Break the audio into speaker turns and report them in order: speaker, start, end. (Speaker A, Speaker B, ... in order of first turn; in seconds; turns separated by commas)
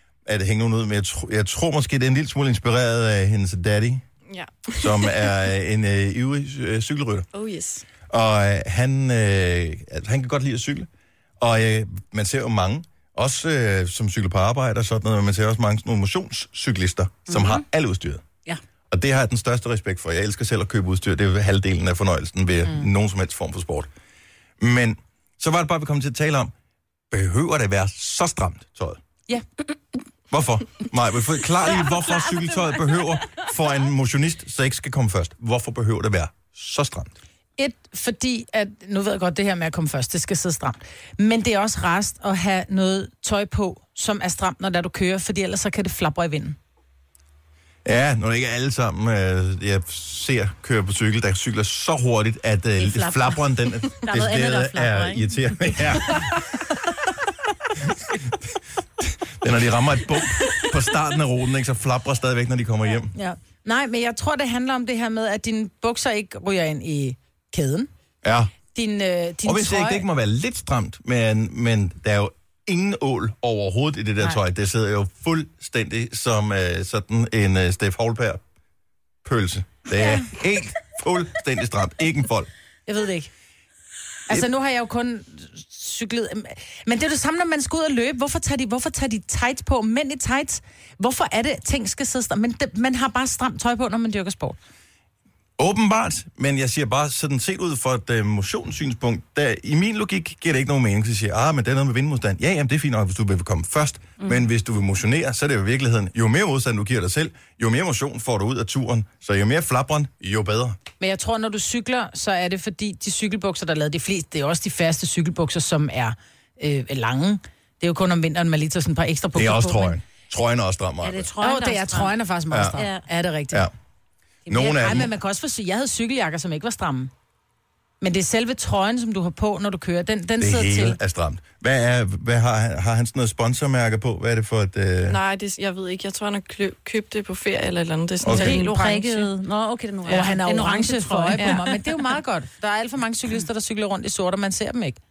Speaker A: 0.2-4.0, Speaker B: 4.3-5.2, Speaker A: 4.8-7.3, Speaker B: 7.3-7.8, Speaker A: 8.1-10.9, Speaker A: 11.4-18.2, Speaker C: 17.3-17.6, Speaker A: 18.9-23.9, Speaker A: 24.6-26.5, Speaker A: 27.1-29.0, Speaker A: 30.3-37.1, Speaker D: 37.6-46.6, Speaker A: 47.9-56.4, Speaker C: 52.8-55.9, Speaker A: 57.9-58.3, Speaker A: 59.0-63.1, Speaker D: 63.1-67.9, Speaker A: 68.2-68.5, Speaker D: 68.7-70.0, Speaker A: 69.4-78.4, Speaker A: 79.2-82.5, Speaker D: 80.0-80.2, Speaker D: 82.9-83.3, Speaker D: 84.3-94.6, Speaker A: 95.6-110.8, Speaker D: 111.0-120.0, Speaker A: 119.3-121.3, Speaker C: 121.0-122.1, Speaker D: 121.4-123.7, Speaker A: 122.5-122.8, Speaker C: 122.8-123.0, Speaker A: 124.5-125.1, Speaker C: 124.5-125.0, Speaker D: 124.5-127.1, Speaker D: 128.0-131.0, Speaker A: 130.4-135.2, Speaker B: 135.1-138.8, Speaker A: 138.2-138.6, Speaker D: 138.3-139.3, Speaker C: 138.3-141.8, Speaker D: 140.1-145.0